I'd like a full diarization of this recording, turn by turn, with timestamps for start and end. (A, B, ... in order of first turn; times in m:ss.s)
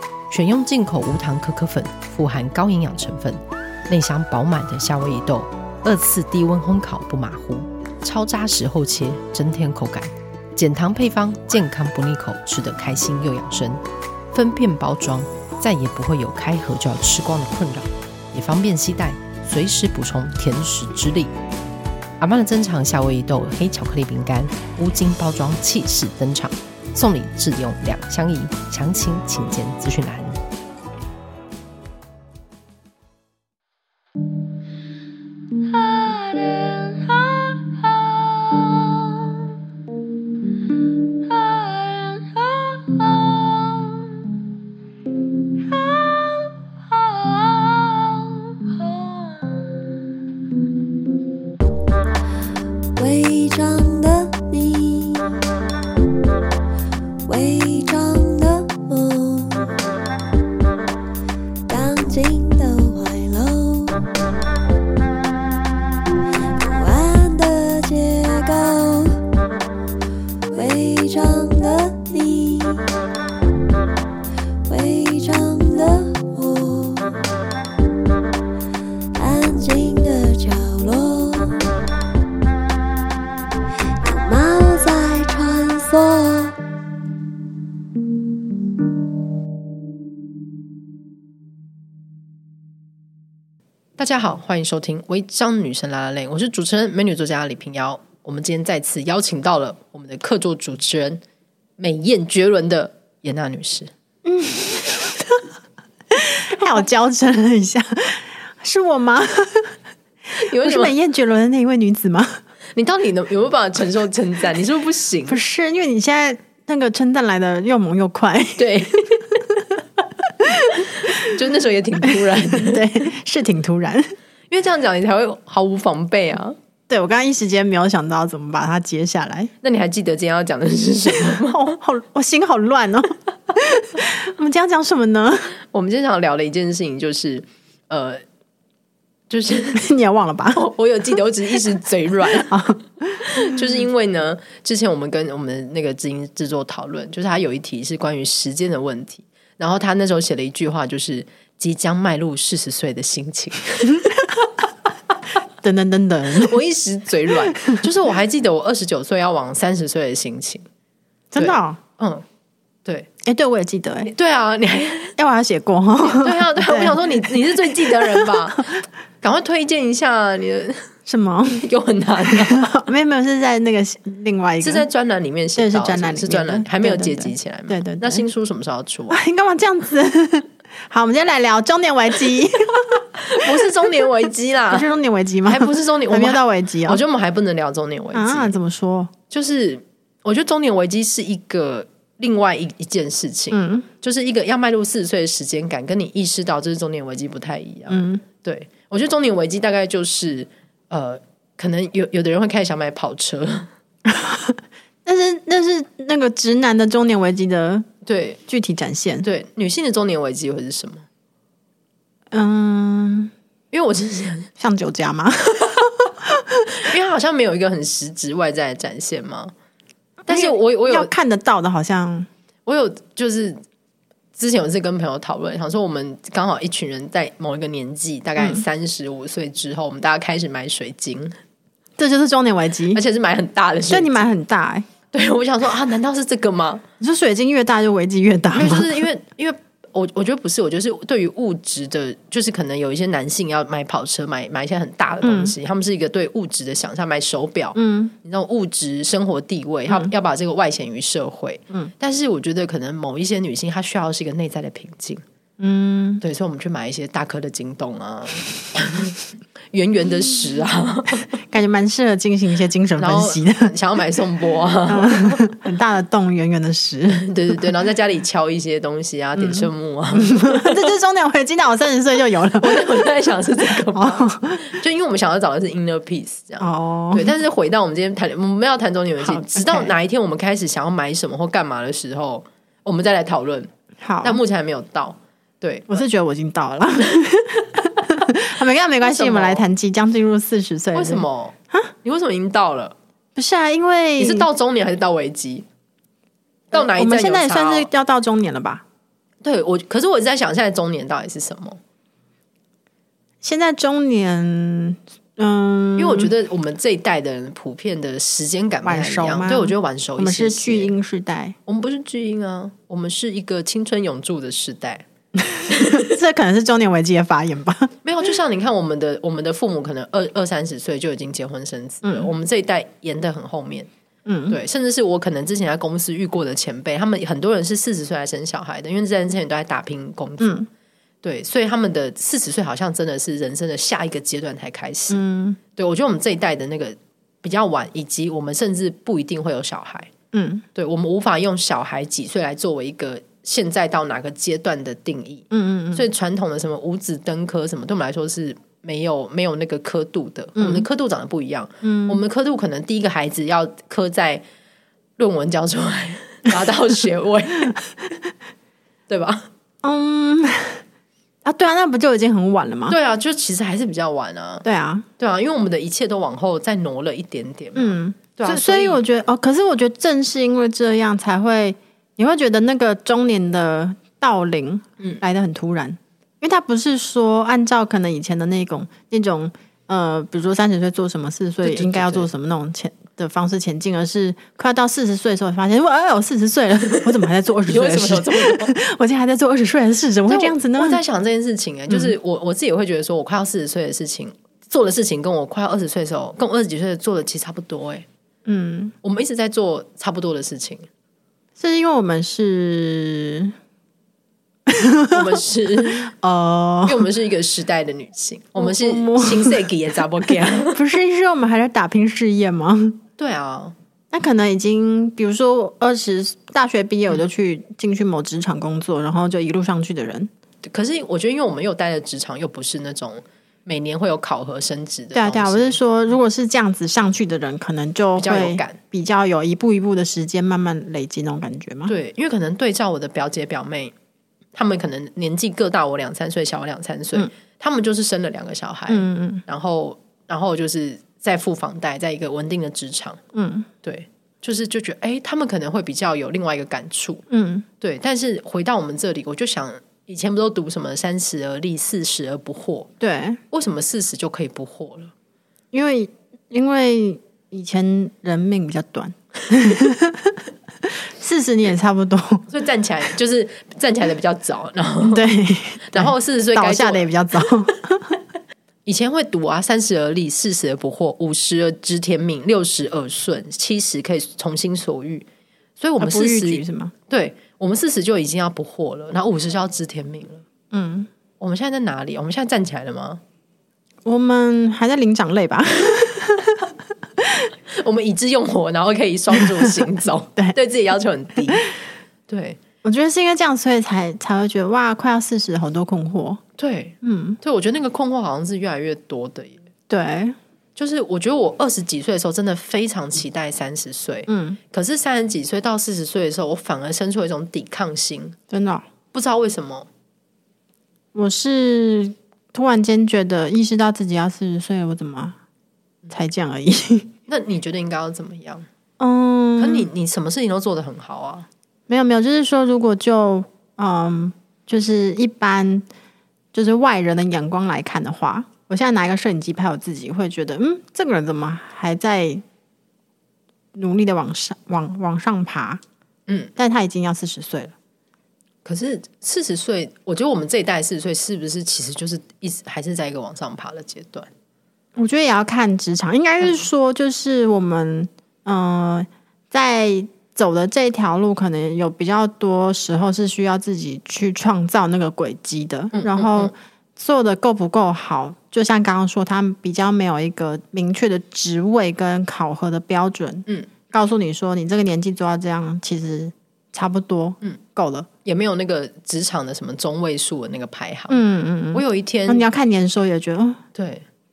0:00.3-0:13.8 A
0:14.3-0:21.3 A
0:22.2-0:30.4 A
0:35.8-0:39.0 B
0:41.3-0:43.8 B
0:45.7-0:49.5 B
0:53.0-0:55.4 B
0:57.2-0:59.7 B
1:01.7-1:04.1 B
1:06.6-1:09.2 B
1:10.5-1:12.9 B
1:14.7-1:17.2 B
1:19.2-1:21.6 B
1:24.0-1:26.6 B
1:34.0-1:41.2 A
1:41.8-1:43.9 A
1:44.2-1:45.4 C
1:46.1-1:49.8 C
1:50.4-1:50.9 A
1:50.5-1:52.4 C
1:52.8-1:55.4 A
1:55.3-2:01.3 C
1:58.6-1:59.4 A
2:00.6-2:02.8 A
2:02.1-2:04.2 C
2:04.5-2:06.6 A
2:06.9-2:09.5 C
2:09.6-2:11.8 A
2:11.2-2:15.5 C
2:15.6-2:18.2 A
2:19.3-2:19.9 A
2:19.7-2:20.6 C
2:20.5-2:22.6 A
2:22.5-2:23.6 C
2:23.2-2:34.3 A
2:35.6-2:36.6 C
2:36.3-2:40.6 A
2:37.3-2:37.9 C
2:41.3-2:41.8 C
2:41.4-2:42.2 A
2:43.2-2:44.1 C
2:44.0-2:45.2 A
2:45.2-2:48.6 C
2:46.0-2:50.9 A
2:51.1-2:51.7 C
2:51.6-2:52.8 A
2:52.3-2:54.9 C
2:54.6-2:59.2 A
2:55.6-2:58.2 C
2:59.1-3:04.1 C
3:03.2-3:04.9 A
3:04.7-3:07.0 C
3:05.5-3:08.6 A
3:08.1-3:09.1 C
3:09.3-3:23.7 A
3:13.5-3:13.9 C
3:17.9-3:18.2 C
3:24.1-3:27.9 C
3:28.0-3:28.4 A
3:28.5-3:29.3 C
3:29.2-3:31.0 A
3:32.3-3:33.3 C
3:33.7-3:34.5 A
3:34.6-3:36.9 C
3:36.7-3:39.5 A
3:40.3-3:41.1 A
3:40.3-3:42.3 C
3:42.7-3:43.6 A
3:44.4-3:51.4 A
3:48.4-3:48.6 C
3:52.0-3:53.0 C
3:52.9-3:54.2 A
3:53.9-3:54.9 C
3:55.1-3:56.8 A
3:57.0-3:59.0 C
3:58.5-4:15.2 A
4:05.2-4:05.6 C
4:07.8-4:08.1 C
4:15.6-4:16.2 C
4:16.2-4:21.3 A
4:21.5-4:23.7 C
4:23.0-4:25.5 A
4:24.9-4:27.6 C
4:27.1-4:30.9 A
4:29.4-4:33.1 C
4:32.6-4:43.7 A
4:33.6-4:34.7 C
4:36.6-4:37.3 C
4:39.2-4:39.9 C
4:44.0-4:44.4 C
4:44.2-4:46.0 A
4:45.9-4:51.9 C
4:49.0-4:49.6 A
4:50.9-4:53.0 A
4:53.4-4:54.5 C
4:54.2-4:55.7 A
4:56.7-4:57.9 A
4:56.7-4:58.8 C
4:59.4-5:01.8 A
5:03.4-5:06.3 C
5:06.0-5:10.9 A
5:08.8-5:11.6 C
5:11.7-5:15.1 A
5:15.5-5:17.9 C
5:15.7-5:16.2 A
5:18.0-5:23.9 A
5:22.0-5:22.3 C
5:24.3-5:24.6 C
5:24.5-5:30.6 A
5:30.4-5:30.7 C
5:31.2-5:35.2 A
5:35.1-5:35.6 C
5:35.8-5:40.1 A
5:40.3-5:40.6 C
5:40.8-5:54.4 A
5:45.5-5:46.1 C
5:50.6-5:50.9 C
5:51.8-5:52.2 C
5:55.2-5:57.8 A
5:59.1-5:59.5 A
5:59.8-6:00.8 C
6:01.4-6:03.0 C
6:02.9-6:04.6 A
6:04.6-6:05.1 C
6:05.2-6:09.0 A
6:07.8-6:31.0 C
6:21.6-6:22.3 A
6:26.9-6:28.8 A
6:30.3-6:38.1 A
6:38.5-6:38.9 C
6:39.0-6:40.8 A
6:41.6-6:43.6 C
6:44.7-6:47.1 C
6:45.1-6:46.1 A
6:46.8-6:50.8 A
6:48.6-6:49.7 C
6:50.7-6:53.0 C
6:53.2-6:53.8 A
6:54.1-7:00.3 C
7:00.6-7:05.8 A
7:05.1-7:11.9 C
7:08.2-7:08.8 A
7:11.9-7:13.9 A
7:14.6-7:23.2 A
7:18.9-7:19.4 C
7:23.3-7:23.7 C
7:23.8-7:27.2 A
7:27.3-7:27.7 C
7:27.8-7:32.9 A
7:33.0-7:33.4 C
7:33.5-7:35.1 A
7:35.7-7:42.5 C
7:42.5-7:45.2 A
7:45.1-7:48.2 C
7:45.9-7:47.1 A
7:48.8-7:55.3 A
7:55.8-8:00.4 A
7:56.0-7:56.9 C
8:00.7-8:01.1 C
8:01.4-8:03.2 A
8:04.0-8:07.5 C
8:07.7-8:11.7 A
8:12.3-8:12.6 A
8:12.8-8:16.4 C
8:16.6-8:19.6 A
8:17.0-8:17.4 C
8:19.9-8:20.4 C
8:20.8-8:28.4 A
8:24.3-8:24.6 C
8:28.5-8:28.8 C
8:29.1-8:29.9 A
8:31.1-8:35.4 C
8:36.1-8:37.1 C
8:37.3-8:38.7 A
8:39.0-8:39.9 C
8:39.6-8:41.5 A
8:41.9-8:45.9 C
8:46.5-8:52.4 C
8:53.8-8:55.8 C
8:56.6-8:57.7 C
8:58.6-9:04.3 A
9:05.0-9:28.1 C
9:15.9-9:16.5 A
9:28.2-9:31.2 A
9:31.1-9:33.6 C
9:31.7-9:32.5 A
9:33.8-9:34.0 A